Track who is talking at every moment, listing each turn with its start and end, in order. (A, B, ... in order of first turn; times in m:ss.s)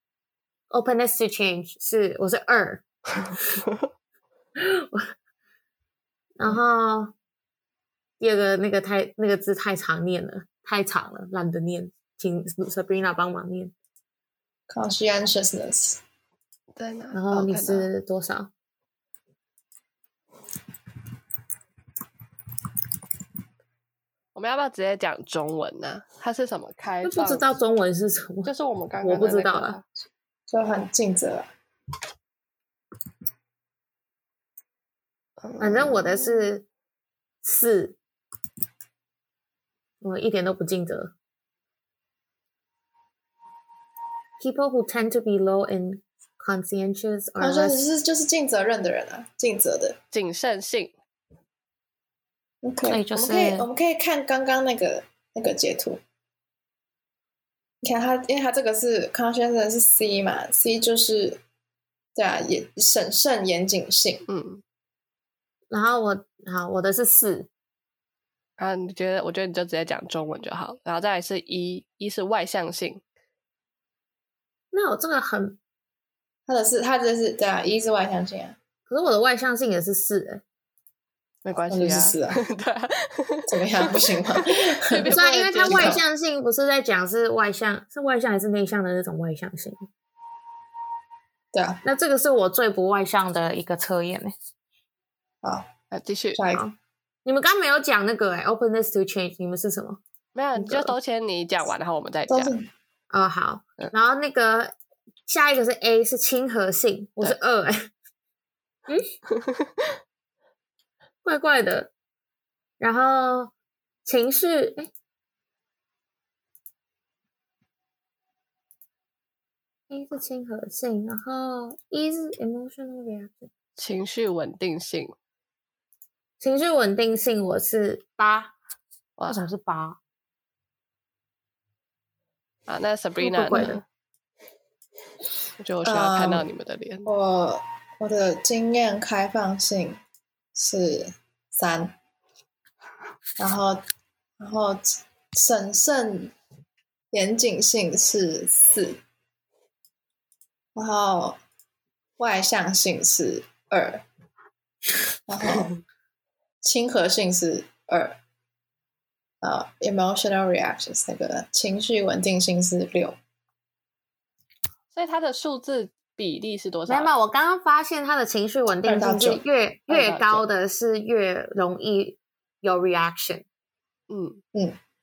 0:00.7-0:02.8 A
0:04.6-0:05.1 A
0:06.4-0:07.1 A
0:08.2-0:13.7 A
0:14.7-0:16.0 B
0:16.8-0:17.9 C
0:17.1-0:18.5 A
0:24.4-0:27.5 C
0:27.0-0:29.8 A
0:28.4-0:29.8 C
0:30.5-0:31.5 B
0:35.4-0:36.3 C
0:35.6-0:36.6 A
0:37.4-0:38.0 A
0:40.0-0:41.1 A
0:44.4-0:47.8 A
0:47.4-0:50.0 B
0:50.1-0:50.9 C
0:52.6-0:56.0 B
0:52.9-0:53.7 A
0:57.8-1:01.4 B
1:02.2-1:04.2 B
1:04.3-1:04.6 C
1:05.7-1:07.5 A
1:08.6-1:13.0 C
1:14.7-1:15.6 A
1:16.5-1:18.6 B
1:18.9-1:20.4 A
1:21.4-1:26.0 C
1:21.7-1:22.4 B
1:23.5-1:25.1 B
1:25.1-1:29.9 A
1:25.7-1:26.0 B
1:31.5-1:31.8 B
1:31.8-1:34.4 A
1:35.4-1:35.7 B
1:35.9-1:36.4 C
1:36.4-1:36.7 B
1:37.2-1:40.0 A
1:40.4-1:42.6 C
1:40.6-1:40.9 A
1:42.3-1:42.7 B
1:43.1-1:44.7 A
1:45.3-1:47.9 A
1:51.2-1:51.9 A
1:52.8-1:53.5 A
1:54.0-1:54.9 A
1:59.9-2:03.5 A
2:03.8-2:05.2 C
2:06.4-2:08.5 A
2:09.2-2:09.5 C
2:09.3-2:10.0 A
2:12.7-2:13.8 C
2:13.2-2:13.8 A
2:15.6-2:17.1 C
2:15.8-2:16.5 B
2:17.1-2:20.0 B
2:20.5-2:22.0 B
2:23.4-2:23.8 B
2:24.4-2:26.3 B
2:27.1-2:29.0 B
2:30.8-2:31.4 B
2:32.2-2:34.0 B
2:35.3-2:35.7 B
2:36.6-2:38.2 B
2:39.4-2:43.2 B
2:44.9-2:47.1 C
2:46.9-2:53.4 A
2:48.8-2:49.4 B
2:49.9-2:50.4 C
2:54.1-2:54.4 C